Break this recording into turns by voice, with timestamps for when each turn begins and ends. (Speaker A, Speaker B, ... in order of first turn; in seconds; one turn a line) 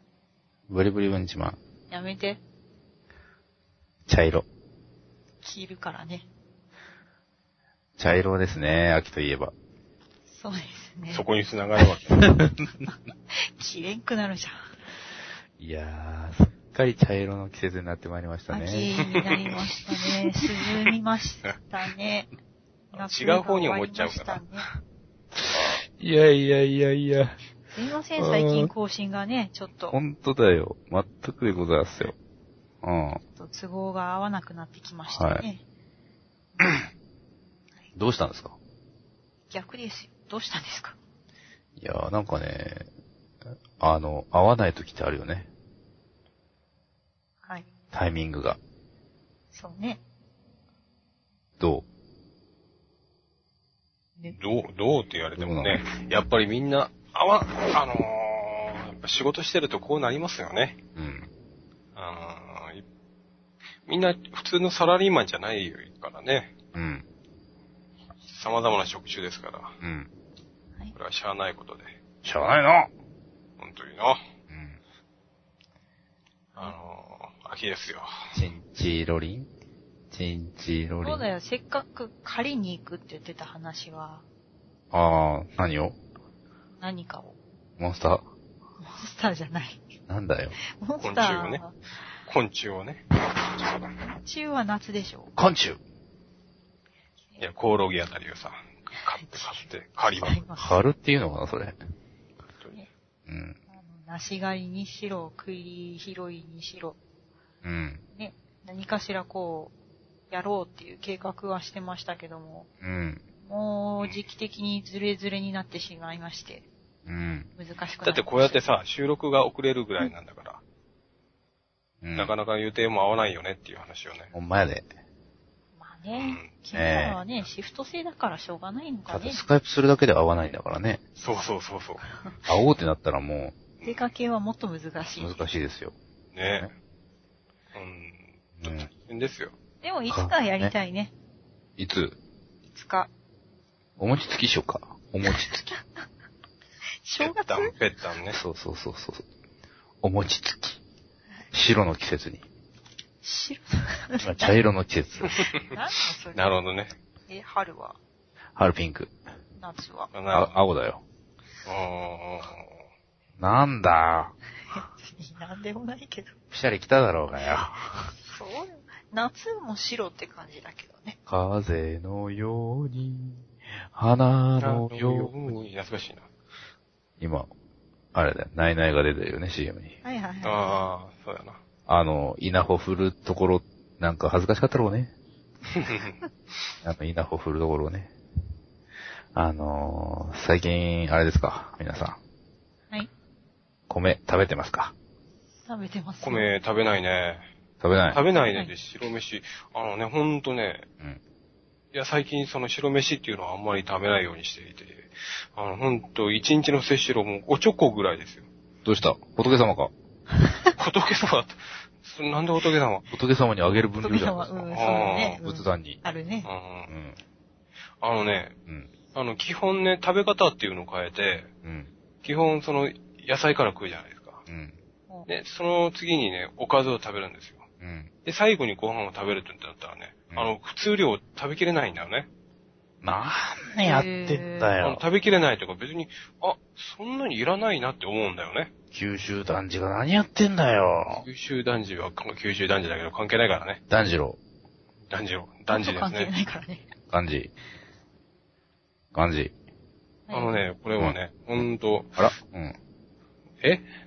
Speaker A: 0.7-1.6
Speaker B: 1.9-2.4
Speaker A: 4.1-4.4
Speaker B: 5.4-6.3
Speaker A: 8.0-9.5
Speaker B: 10.3-11.2
Speaker C: 11.1-12.3
Speaker A: 12.2-12.5
Speaker B: 12.9-14.7
Speaker A: 15.6-18.9
Speaker B: 18.5-22.3
Speaker C: 19.1-19.5
Speaker B: 22.9-24.7
Speaker C: 22.9-24.4
Speaker A: 25.4-27.4
Speaker B: 27.7-30.0
Speaker A: 28.2-28.7
Speaker A: 29.9-32.1
Speaker A: 32.8-33.2
Speaker B: 33.4-35.6
Speaker A: 35.1-35.5
Speaker A: 38.0-38.6
Speaker B: 39.5-41.0
Speaker A: 41.8-42.9
Speaker A: 43.8-45.5
Speaker A: 47.9-48.6
Speaker B: 49.5-50.0
Speaker A: 51.6-51.9
Speaker C: 54.3-60.8
Speaker A: 55.4-55.9
Speaker A: 61.0-61.3
Speaker C: 62.0-62.8
Speaker C: 63.9-66.5
Speaker A: 66.7-67.0
Speaker C: 68.3-69.8
Speaker A: 69.8-70.1
Speaker C: 71.0-72.0
Speaker A: 72.2-72.9
Speaker C: 73.6-74.2
Speaker A: 74.5-74.8
Speaker C: 76.6-78.1
Speaker A: 78.3-79.5
Speaker A: 80.1-81.2
Speaker B: 81.0-84.2
Speaker A: 84.9-86.0
Speaker B: 86.8-87.4
Speaker A: 87.8-88.2
Speaker B: 88.8-89.8
Speaker A: 90.1-90.6
Speaker B: 90.6-91.7
Speaker C: 91.0-91.6
Speaker C: 92.3-93.1
Speaker C: 93.6-93.9
Speaker B: 94.0-95.3
Speaker A: 95.4-95.8
Speaker C: 97.4-100.4
Speaker B: 99.1-99.7
Speaker B: 100.2-100.8
Speaker A: 100.6-101.8
Speaker A: 103.3-103.6
Speaker B: 103.7-107.0
Speaker A: 107.6-108.0
Speaker B: 108.1-109.7
Speaker B: 110.3-112.7
Speaker A: 112.8-113.2
Speaker B: 113.4-116.7
Speaker A: 117.1-117.5
Speaker B: 117.6-118.6
Speaker C: 118.0-120.6
Speaker A: 122.0-122.3
Speaker C: 122.2-124.3
Speaker A: 124.3-124.9
Speaker B: 125.8-129.4
Speaker C: 126.2-126.5
Speaker A: 126.7-127.2
Speaker A: 129.1-131.0
Speaker C: 131.2-132.0
Speaker A: 132.5-133.6
Speaker C: 133.8-134.1
Speaker B: 133.8-135.4
Speaker A: 135.2-135.9
Speaker C: 136.3-136.7
Speaker C: 137.7-139.6
Speaker A: 138.6-138.9
Speaker B: 139.8-141.1
Speaker A: 140.1-140.8
Speaker A: 141.8-142.2
Speaker B: 142.7-143.1
Speaker A: 144.0-145.6
Speaker B: 145.3-146.1
Speaker B: 147.1-147.7
Speaker C: 147.2-148.4
Speaker A: 148.3-149.2
Speaker A: 150.0-150.8
Speaker A: 151.5-152.4
Speaker B: 153.2-154.6
Speaker A: 154.2-155.5
Speaker B: 155.6-156.5
Speaker C: 156.3-157.0
Speaker B: 157.3-158.0
Speaker A: 158.6-159.1
Speaker B: 159.6-160.2
Speaker C: 160.1-160.5
Speaker A: 160.3-161.0
Speaker C: 161.7-162.6
Speaker A: 163.4-164.3
Speaker B: 164.7-166.3
Speaker A: 166.5-168.1
Speaker B: 168.2-171.2
Speaker A: 171.3-175.3
Speaker C: 174.6-176.3
Speaker A: 177.2-177.5
Speaker A: 178.1-180.0
Speaker B: 180.0-180.8
Speaker C: 180.4-181.6
Speaker A: 181.9-185.1
Speaker C: 185.7-186.2
Speaker A: 186.8-188.1
Speaker A: 189.3-192.2
Speaker A: 193.9-194.9
Speaker B: 195.7-196.5
Speaker C: 196.2-197.5
Speaker A: 197.8-198.2
Speaker C: 198.1-200.8
Speaker B: 198.4-198.7
Speaker C: 201.9-208.5
Speaker A: 208.8-209.9
Speaker B: 210.4-210.7
Speaker C: 210.8-213.1
Speaker A: 213.1-216.0
Speaker B: 214.0-216.5
Speaker C: 214.7-215.4
Speaker C: 216.4-216.9
Speaker A: 216.9-217.2
Speaker C: 218.0-218.6
Speaker C: 219.1-221.5
Speaker A: 221.6-221.9
Speaker C: 222.2-224.4
Speaker A: 224.5-224.8
Speaker C: 225.3-227.6
Speaker A: 227.8-228.1
Speaker C: 228.2-232.3
Speaker A: 233.0-235.0
Speaker B: 233.8-234.8
Speaker C: 234.8-238.7
Speaker A: 238.9-241.3
Speaker C: 241.1-243.8
Speaker A: 243.9-244.4
Speaker C: 245.1-246.3
Speaker B: 245.7-246.9
Speaker A: 247.1-247.5
Speaker A: 249.1-249.5
Speaker B: 250.3-250.6
Speaker C: 250.3-252.2
Speaker A: 252.2-252.8